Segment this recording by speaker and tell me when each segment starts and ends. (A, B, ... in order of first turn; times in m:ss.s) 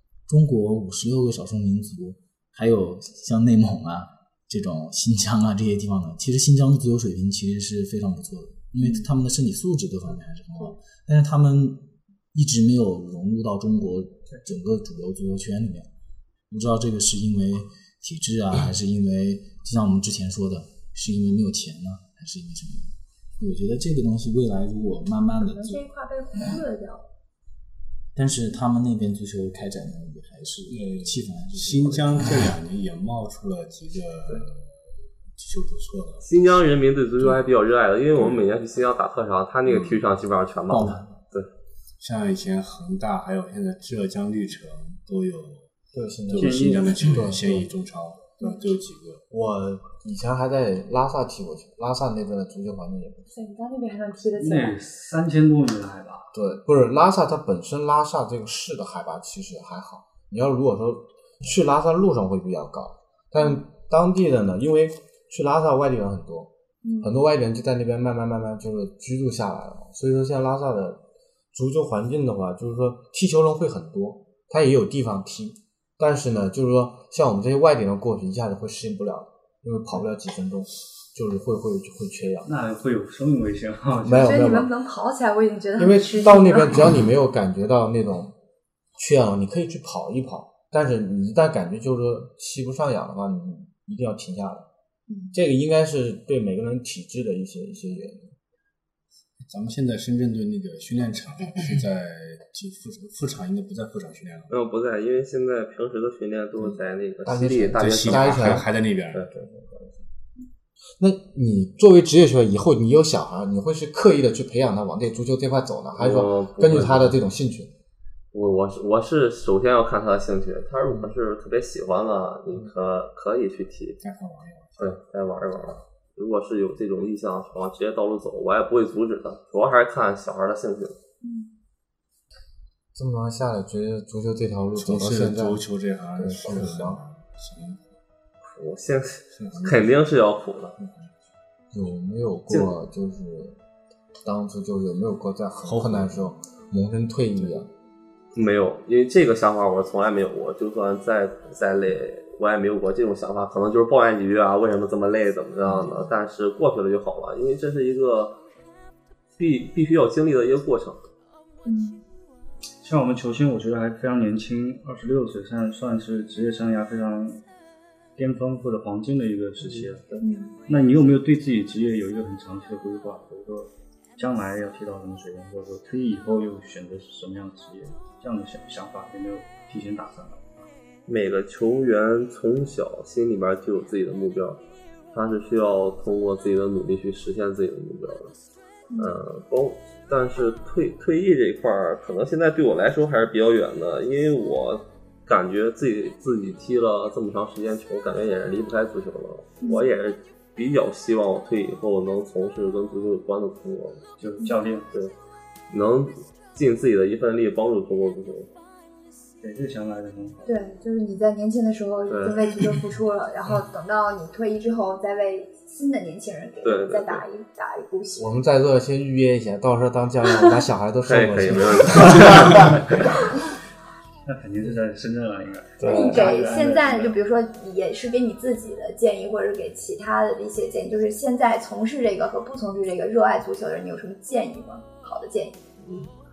0:00.3-0:15.9 A
0:08.8-0:09.1 B
0:16.5-0:25.8 A
0:25.4-0:27.1 B
0:28.1-0:32.5 A
0:30.7-0:34.8 C
0:35.4-0:36.3 C
0:36.2-0:41.5 D
0:37.2-0:37.4 C
0:38.1-0:38.4 C
0:39.7-0:40.0 C
0:40.7-0:41.2 A
0:42.0-0:45.7 C
0:45.9-0:47.7 E
0:46.3-0:49.2 C
0:46.4-0:47.1 F
0:49.3-0:53.3 E
0:53.3-0:54.8 B
0:54.4-0:56.3 F
0:56.3-1:06.5 E
1:06.8-1:07.2 B
1:07.0-1:11.0 E
1:11.5-1:22.5 E
1:22.4-1:24.3 F
1:24.0-1:24.7 E
1:24.2-1:26.8 B
1:25.8-1:28.3 E
1:29.0-1:34.7 E
1:35.1-1:35.4 B
1:35.3-1:38.3 E
1:39.5-1:44.5 C
1:44.5-1:49.9 D
1:47.3-1:48.7 E
1:47.7-1:49.2 C
1:51.0-1:57.7 E
1:56.0-1:57.2 D
1:58.3-2:04.0 D
2:00.9-2:01.1 E
2:04.0-2:05.0 C
2:04.8-2:11.0 D
2:11.2-2:11.5 B
2:13.0-2:15.6 E
2:14.7-2:17.8 C
2:16.2-2:17.0 E
2:18.4-2:20.7 D
2:19.4-2:19.9 C
2:20.8-2:21.1 C
2:21.7-2:23.6 E
2:24.2-2:27.7 E
2:25.6-2:26.3 C
2:27.3-2:27.6 C
2:28.3-2:38.4 D
2:35.6-2:36.0 C
2:39.4-2:41.0 D
2:41.6-2:42.0 B
2:42.8-2:47.4 F
2:48.2-2:50.1 F
2:50.2-2:50.6 B
2:50.7-3:00.4 F
3:01.1-3:04.6 D
3:05.1-3:08.3 D
3:08.9-3:09.2 B
3:09.0-3:24.0 D
3:19.6-3:19.9 B
3:24.2-3:24.9 F
3:25.7-3:28.5 D
3:29.4-3:30.6 F
3:30.4-3:38.3 B
3:32.1-3:32.4 D
3:36.6-3:37.2 D
3:38.2-3:42.9 E
3:41.0-3:43.0 D
3:44.3-3:47.2 F
3:45.8-3:46.3 E
3:45.8-3:55.6 B
3:55.8-3:56.1 D